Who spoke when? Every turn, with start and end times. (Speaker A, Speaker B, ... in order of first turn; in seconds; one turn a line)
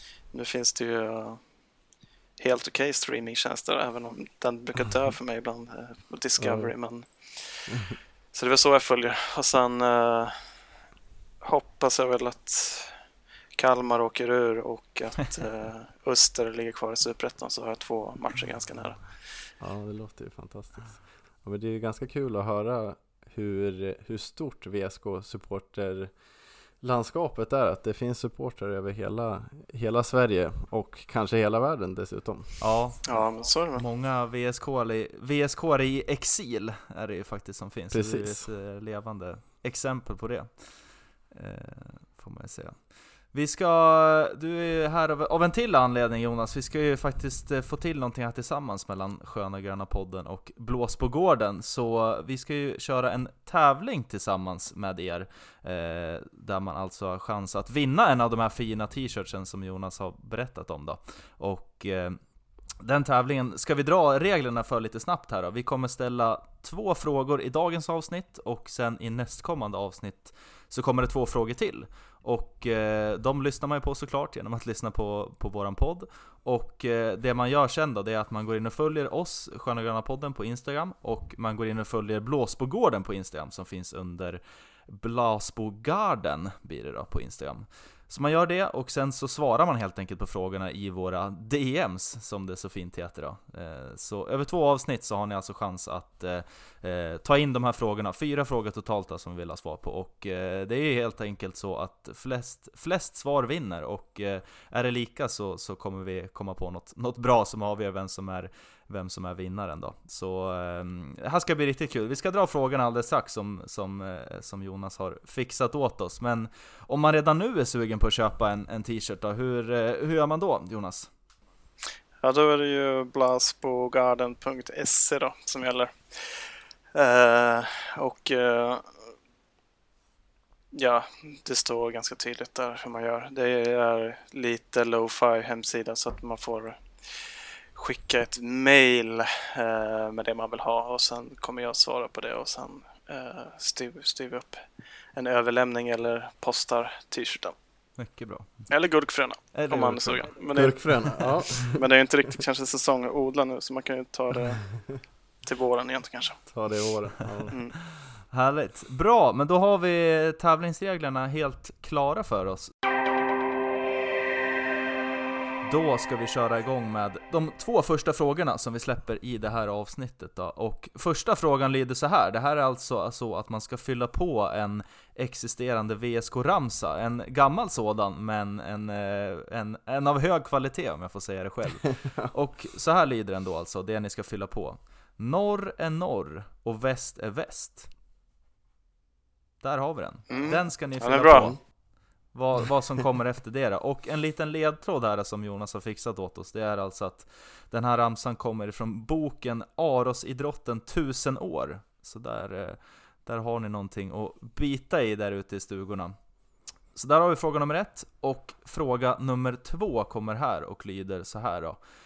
Speaker A: 0.3-1.4
Speaker A: 2.4-7.8
Speaker B: 6.4-6.7
Speaker A: 8.3-10.5
Speaker A: 11.4-13.0
Speaker A: 13.6-19.1
Speaker B: 19.6-26.1
Speaker B: 26.8-32.6
Speaker C: 32.6-62.2
Speaker A: 33.0-33.9
Speaker B: 37.9-38.5
Speaker C: 62.8-121.1
Speaker A: 122.2-128.9
Speaker A: 130.7-144.6
Speaker A: 145.1-147.6
Speaker C: 148.0-148.7
Speaker A: 148.7-154.8
Speaker C: 149.5-150.3
Speaker B: 150.5-151.8
Speaker A: 155.4-156.4
Speaker B: 156.5-157.5
Speaker A: 157.5-157.8
Speaker C: 158.3-162.7
Speaker C: 165.6-187.9
Speaker B: 181.8-182.3
Speaker C: 189.6-191.6
Speaker A: 190.3-191.5
Speaker C: 192.3-206.1
Speaker C: 206.9-211.8